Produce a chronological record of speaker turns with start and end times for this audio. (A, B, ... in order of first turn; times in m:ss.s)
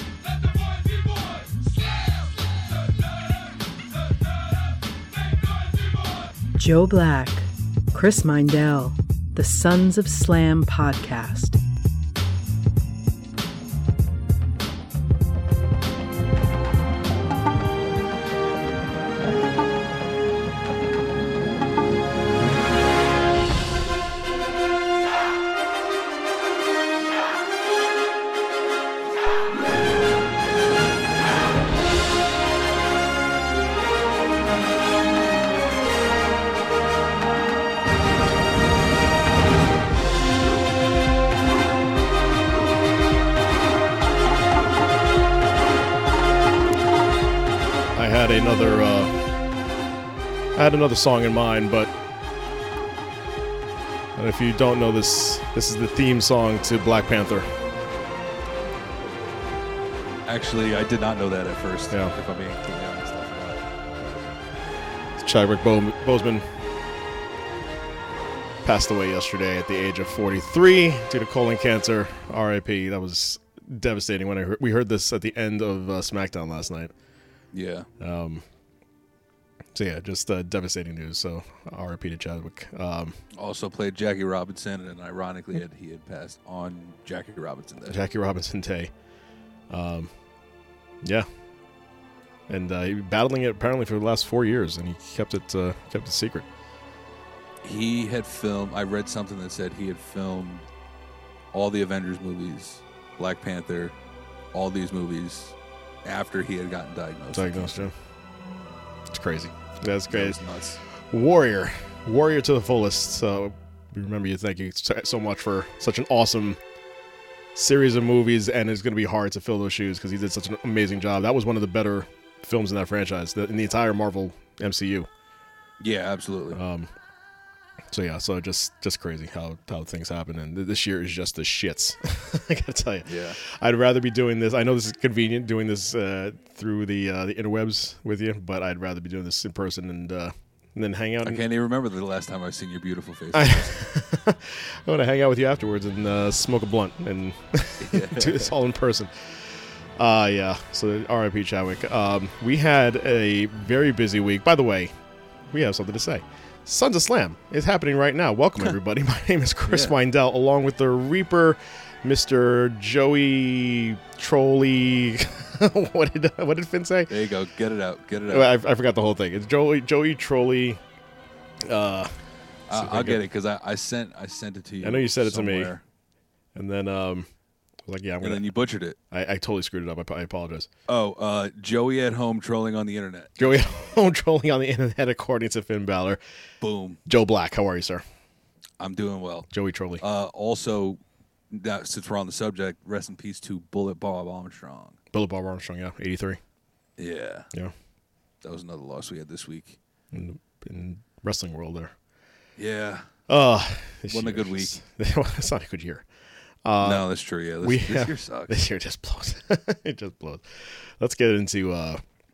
0:06.6-0:11.6 A
0:47.9-0:49.1 B
0:50.6-0:51.9 B
0:54.2-0:57.5 B
1:00.2-1:03.6 C
1:05.2-1:06.5 B
1:08.6-1:16.9 B
1:17.5-1:17.9 C
1:18.0-1:18.4 B
1:19.7-1:23.2 B
1:23.3-1:28.0 C
1:27.8-1:28.9 B
1:29.7-1:30.1 B
1:31.0-1:31.3 B
1:32.5-1:36.5 B
1:37.6-1:40.6 C
1:41.5-1:43.9 C
1:44.5-1:47.9 C
1:47.3-1:47.9 B
1:49.1-1:50.4 B
1:50.1-1:50.8 C
1:51.1-1:56.6 B
1:57.5-2:05.1 B
2:05.8-2:06.6 C
2:06.5-2:06.9 B
2:07.9-2:21.4 B
2:13.0-2:13.4 C
2:21.2-2:23.8 C
2:23.3-2:34.9 B
2:27.8-2:28.5 C
2:35.5-2:47.1 B
2:39.7-2:39.9 C
2:47.1-2:48.5 C
2:48.3-2:50.8 B
2:51.6-2:52.1 B
2:52.7-2:55.8 C
2:52.7-2:53.2 B
2:54.8-2:55.7 B
2:56.5-2:57.3 B
2:57.8-2:58.4 B
2:58.2-2:59.0 C
2:59.1-3:00.7 B
3:00.9-3:03.9 C
3:03.4-3:06.2 B
3:06.6-3:07.0 C
3:07.0-3:08.0 B
3:08.8-3:09.5 C
3:09.5-3:10.0 B
3:10.0-3:11.0 C
3:11.5-3:15.0 C
3:15.1-3:16.4 B
3:17.0-3:17.5 C
3:18.4-3:19.8 C
3:20.1-3:21.9 B
3:22.6-3:23.1 C
3:23.3-3:26.0 B
3:24.1-3:24.8 C
3:26.6-3:27.1 B
3:26.8-3:28.6 C
3:27.6-3:32.0 B